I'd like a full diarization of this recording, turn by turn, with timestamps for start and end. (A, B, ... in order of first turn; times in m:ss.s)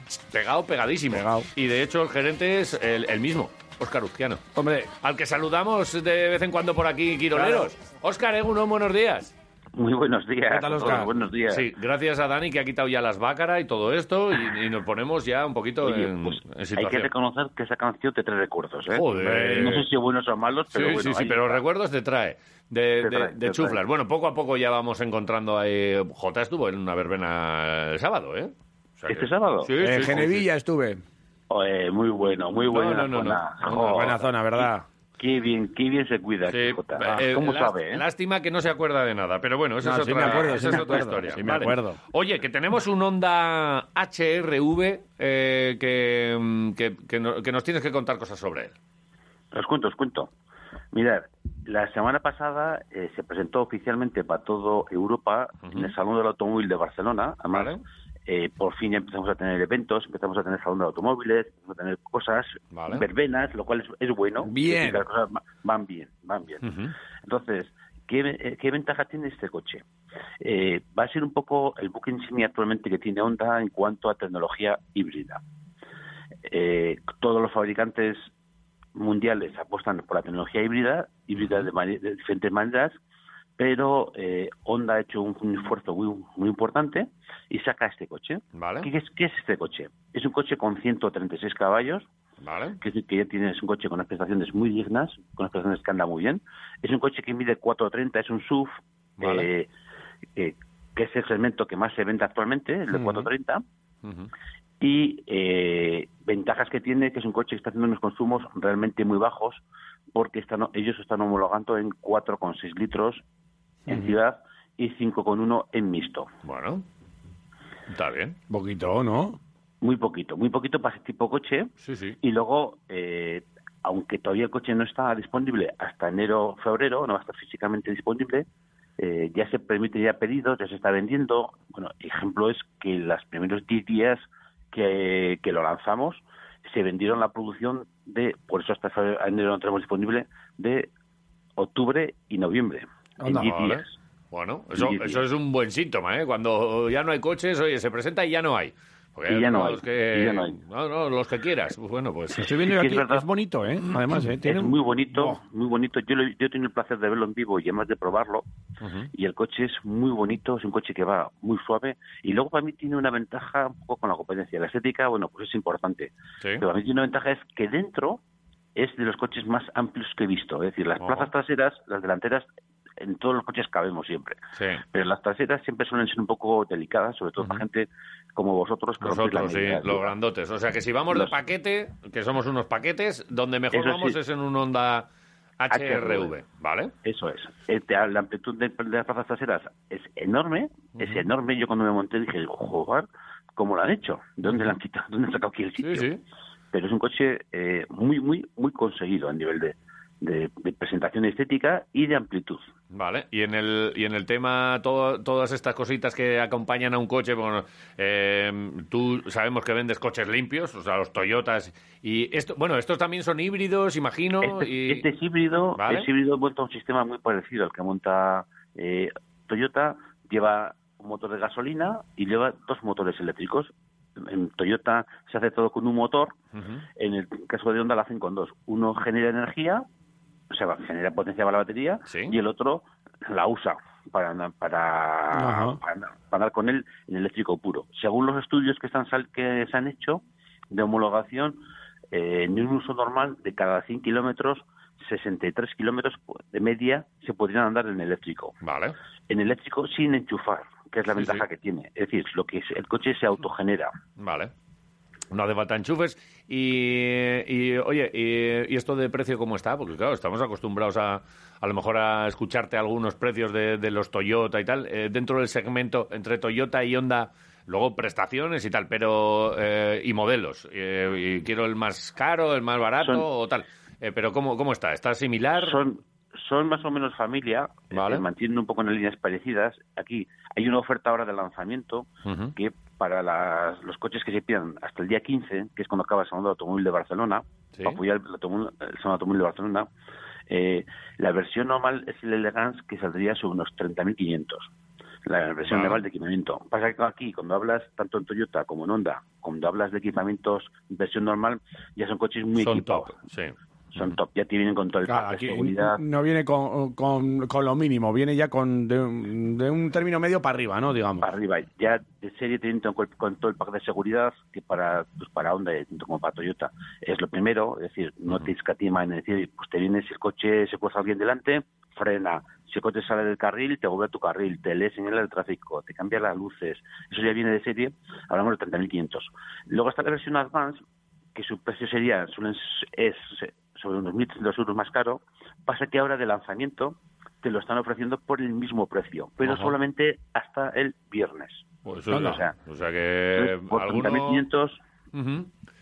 0:00.3-0:04.4 A
0:01.1-0:01.5 B
0:04.6-0:04.9 B
0:05.0-0:09.3 A
0:07.3-0:07.7 B
0:09.8-0:11.7 C
0:10.5-0:11.1 B
0:10.8-0:17.1 A
0:15.8-0:21.6 C
0:18.9-0:19.9 A
0:19.2-0:19.7 B
0:20.7-0:30.4 A
0:23.0-0:23.8 C
0:29.1-0:29.7 C
0:29.8-0:31.0 B
0:31.5-0:34.7 C
0:32.6-0:34.3 A
0:33.8-0:34.9 B
0:35.2-0:38.0 C
0:36.5-0:48.8 A
0:39.8-0:42.0 B
0:49.5-0:50.3 C
0:50.9-0:57.8 C
0:55.6-0:55.9 A
0:57.5-0:57.8 A
0:58.3-1:06.6 C
1:02.7-1:03.1 A
1:04.4-1:05.0 B
1:06.6-1:06.9 A
1:07.2-1:09.8 C
1:10.4-1:15.4 C
1:16.5-1:18.3 C
1:19.0-1:23.0 C
1:21.4-1:21.7 A
1:23.6-1:32.1 C
1:28.6-1:28.9 A
1:32.4-1:32.8 A
1:32.8-1:39.7 C
1:39.2-1:39.5 A
1:40.4-1:43.6 C
1:42.9-1:43.3 B
1:44.0-1:44.3 A
1:44.8-1:49.6 C
1:50.2-1:53.2 C
1:53.9-1:56.3 C
1:53.9-1:54.1 B
1:56.4-1:56.8 A
1:57.9-1:58.4 A
1:58.5-1:59.4 B
1:59.8-2:01.7 C
2:01.8-2:02.2 A
2:02.2-2:08.5 C
2:09.0-2:20.9 C
2:21.6-2:23.9 C
2:23.2-2:23.5 B
2:23.3-2:32.6 A
2:24.8-2:25.2 C
2:29.3-2:30.6 C
2:32.4-2:35.4 B
2:32.7-2:33.2 C
2:34.4-2:38.4 C
2:38.8-2:39.1 A
2:39.1-2:48.2 C
2:48.8-2:52.5 C
2:51.0-2:51.3 A
2:53.0-2:54.4 C
2:54.6-2:54.8 A
2:54.9-3:00.1 C
2:59.0-3:05.1 A
3:03.7-3:04.2 C
3:05.6-3:06.9 A
3:05.7-3:06.3 C
3:07.0-3:16.1 C
3:11.0-3:11.2 A
3:14.4-3:14.8 A
3:15.8-3:16.2 A
3:16.7-3:22.7 C
3:22.9-3:35.1 A
3:34.4-3:46.4 C
3:35.8-3:36.1 A
3:46.6-3:46.9 A
3:47.0-3:49.8 C
3:50.5-4:01.6 C
3:52.1-3:52.4 A
3:55.3-3:55.8 B
4:02.1-4:08.6 C
4:08.6-4:09.0 A
4:09.3-4:13.9 C
4:11.1-4:11.4 A
4:14.2-4:14.5 A
4:15.3-4:35.8 A
4:33.0-4:33.3 C
4:35.6-4:49.9 C
4:37.9-4:38.3 A
4:42.3-4:42.5 A
4:50.5-4:54.7 C
4:55.3-5:03.1 C
4:55.6-4:56.0 A
5:02.6-5:04.2 A
5:04.0-5:06.0 C
5:05.1-5:11.3 B
5:11.2-5:30.8 C
5:31.4-5:42.5 C
5:39.4-5:39.8 A
5:41.9-5:44.5 A
5:42.1-5:42.4 B
5:43.4-5:44.8 C
5:45.1-5:45.5 A